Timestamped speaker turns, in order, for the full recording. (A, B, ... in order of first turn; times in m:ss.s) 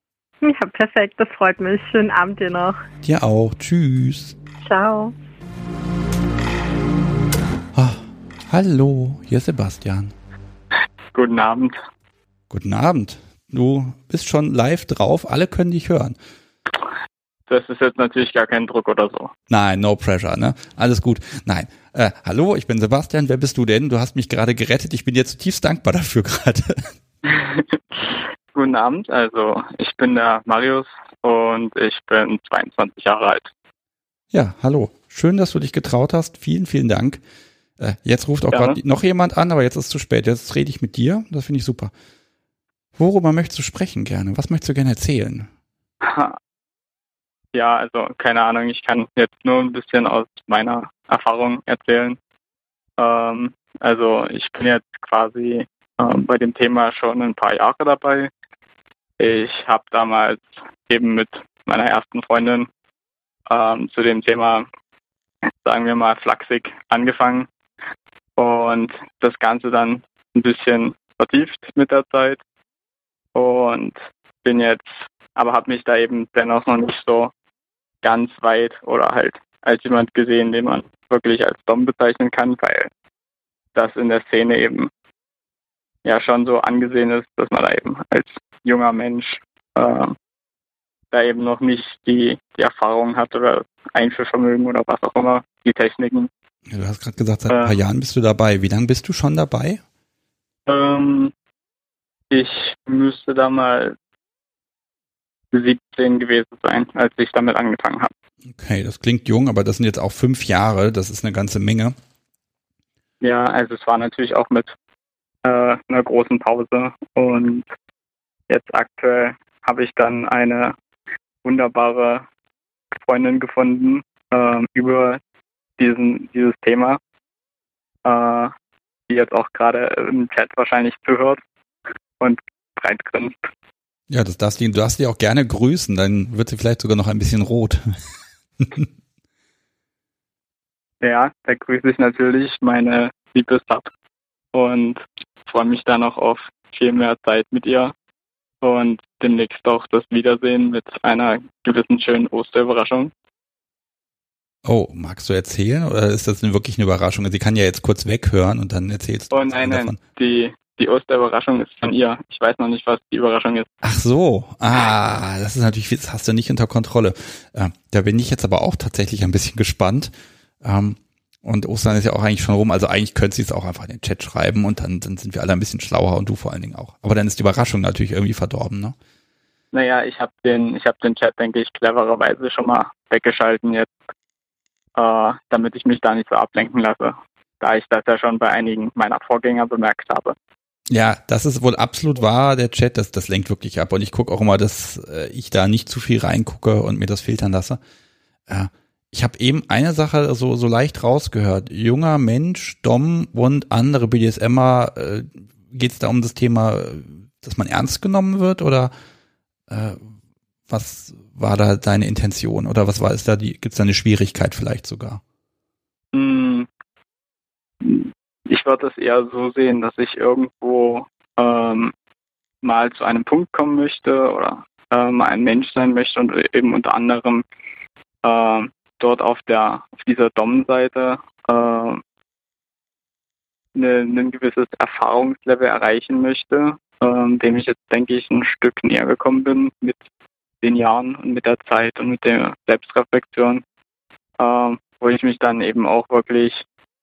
0:00.4-0:02.8 A
0:03.0-0:04.4 B
0:04.6-0:05.1 A
0:07.7-0:10.1 B
0:11.1-0:11.8 C
0:12.5-0:16.2 B
0:17.5-0:19.3 C
0:19.5-0:26.9 B
0:27.2-0:33.5 C
0:34.3-0:37.2 B
0:37.8-0:41.9 B
0:38.5-0:38.8 C
0:43.0-0:45.5 B
0:46.0-0:46.4 C
0:47.5-0:52.2 C
0:53.0-0:58.3 C
0:59.2-1:02.7 C
1:03.5-1:04.6 C
1:05.6-1:07.5 C
1:08.4-1:12.4 C
1:13.3-1:17.3 C
1:18.0-1:22.9 C
1:23.7-1:24.9 C
1:26.0-1:30.1 C
1:31.1-1:36.3 C
1:36.7-1:39.8 B
1:37.5-1:37.7 C
1:40.6-1:41.3 C
1:42.3-1:43.9 C
1:45.5-1:48.1 C
1:48.5-1:51.9 B
1:53.2-1:54.7 C
1:55.4-1:57.7 C
1:58.5-2:00.7 C
2:01.4-2:02.2 C
2:03.0-2:05.2 C
2:05.8-2:07.0 C
2:08.0-2:08.5 C
2:09.1-2:11.4 C
2:12.2-2:13.5 C
2:14.1-2:18.0 B
2:18.6-2:18.9 B
2:21.0-2:23.9 C
2:24.5-2:27.9 C
2:28.6-2:33.1 C
2:34.6-2:40.0 B
2:39.3-2:43.7 C
2:43.8-2:59.0 B
2:59.7-3:03.9 C
3:05.0-3:10.3 C
3:10.9-3:17.8 B
3:18.5-3:28.9 B
3:29.7-3:30.1 B
3:30.7-3:35.2 B
3:36.1-3:36.7 C
3:37.8-3:41.9 C
3:42.6-3:47.4 C
3:48.2-3:52.0 C
3:53.7-4:00.0 C
4:00.6-4:03.6 C
4:04.4-4:06.6 C